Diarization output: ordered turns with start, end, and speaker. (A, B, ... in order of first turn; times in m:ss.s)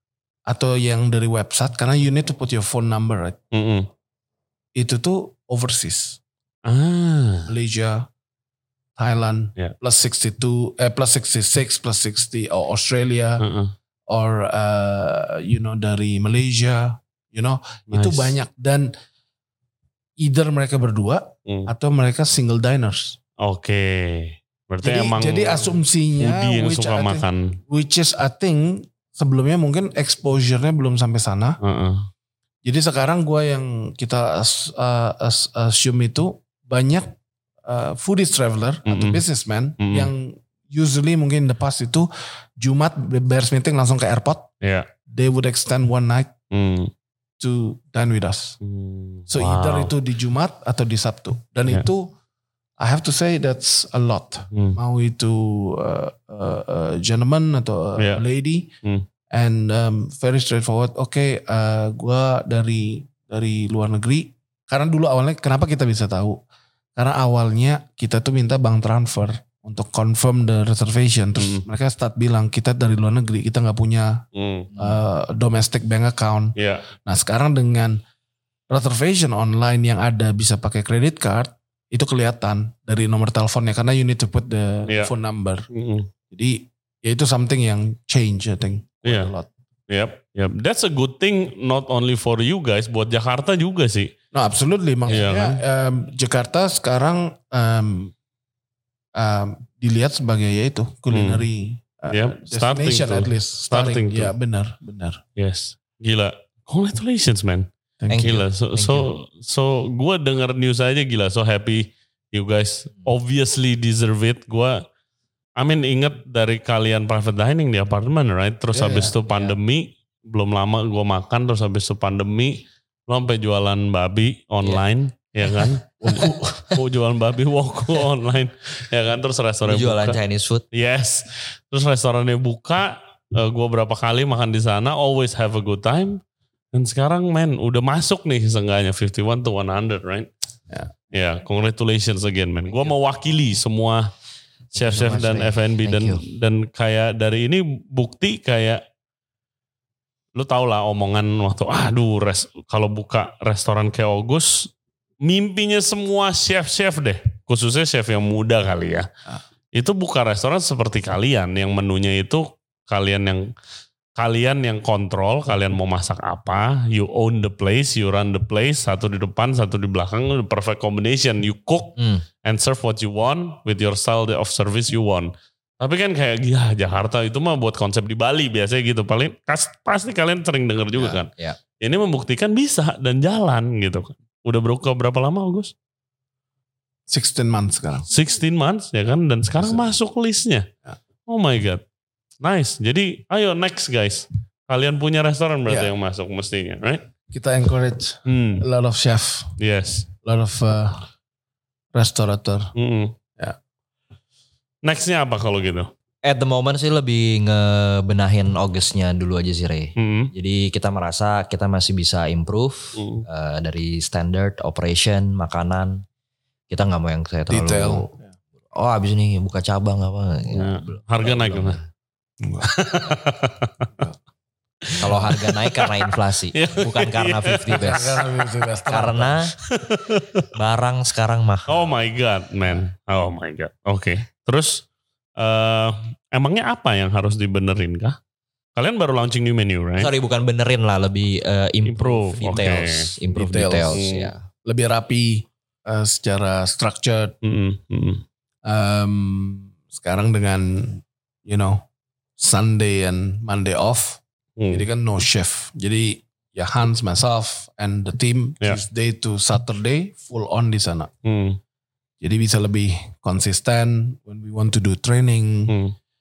0:00.5-0:03.4 A
0:03.5-0:03.9 B
0:04.8-0:06.2 A
0:06.6-0:07.5 B
0:07.5-0:08.1 A
0:09.0-0:13.4 A
0:13.4-0:13.7 B
0:14.1-0:18.9 A
0:17.9-0:18.4 B
0:20.2-0:23.2 A
0:21.5-0:21.7 B
0:23.4-0:27.6 B
0:24.8-0:31.6 A
0:31.6-0:32.1 B
0:32.6-0:37.1 A
0:37.6-0:42.1 A
0:38.9-0:39.2 B
0:39.8-0:40.1 B
0:42.6-0:44.5 A
0:44.6-0:44.9 B
0:45.1-0:46.3 A
0:46.5-0:46.9 B
0:47.4-0:48.6 A
0:48.6-0:49.9 B
0:49.3-0:52.1 A
0:52.8-0:58.7 A
0:59.3-1:06.4 A
1:07.0-1:14.2 A
1:11.4-1:11.6 B
1:14.4-1:14.7 B
1:14.8-1:16.5 A
1:16.6-1:16.8 B
1:17.0-1:18.0 A
1:18.7-1:25.7 A
1:25.7-1:26.1 B
1:26.3-1:29.5 A
1:29.0-1:29.3 B
1:29.9-1:34.1 B
1:34.3-1:38.1 A
1:35.1-1:35.6 B
1:39.2-1:45.2 A
1:41.1-1:41.5 B
1:42.1-1:44.3 B
1:45.4-1:54.8 B
1:48.0-1:48.4 A
1:48.2-1:49.1 C
1:55.6-2:10.2 B
1:58.7-1:59.2 A
2:06.0-2:06.8 A
2:09.6-2:10.6 C
2:10.7-2:16.2 B
2:16.7-2:20.3 B
2:21.1-2:24.1 B
2:24.8-2:28.8 B
2:24.8-2:26.2 C
2:30.4-2:34.7 B
2:35.2-2:39.1 B
2:39.8-2:43.4 B
2:44.2-3:01.3 B
2:52.0-2:52.2 C
3:01.0-3:01.6 C
3:01.8-3:05.7 B
3:07.1-3:08.1 A
3:08.1-3:10.7 B
3:09.6-3:09.9 A
3:11.3-3:11.8 B
3:12.4-3:17.1 B
3:15.7-3:15.9 A
3:17.3-3:19.6 A
3:18.3-3:18.6 B
3:19.6-3:20.1 B
3:20.2-3:21.1 A
3:21.9-3:22.7 A
3:22.8-3:23.1 B
3:24.8-3:25.9 B
3:26.2-3:36.0 C
3:30.0-3:30.3 B
3:33.0-3:33.2 B
3:36.7-3:38.1 C
3:37.5-3:38.3 A
3:38.7-3:41.9 C
3:40.5-3:41.8 B
3:42.4-3:42.7 A
3:42.6-3:43.8 B
3:44.8-3:48.3 B
3:45.0-3:48.2 C
3:47.8-3:49.4 A
3:48.9-3:49.6 C
3:49.7-3:50.5 B
3:50.5-3:52.0 C
3:51.7-3:54.8 B
3:55.4-3:58.2 B
3:58.8-4:00.1 B
4:00.0-4:04.5 C
4:01.9-4:03.1 B
4:03.3-4:04.0 A
4:03.9-4:04.3 B
4:04.6-4:07.4 A
4:07.4-4:08.2 B
4:08.6-4:11.8 A
4:12.4-4:21.1 A
4:14.6-4:14.8 B
4:21.2-4:21.6 B
4:22.2-4:25.8 A
4:25.7-4:26.0 B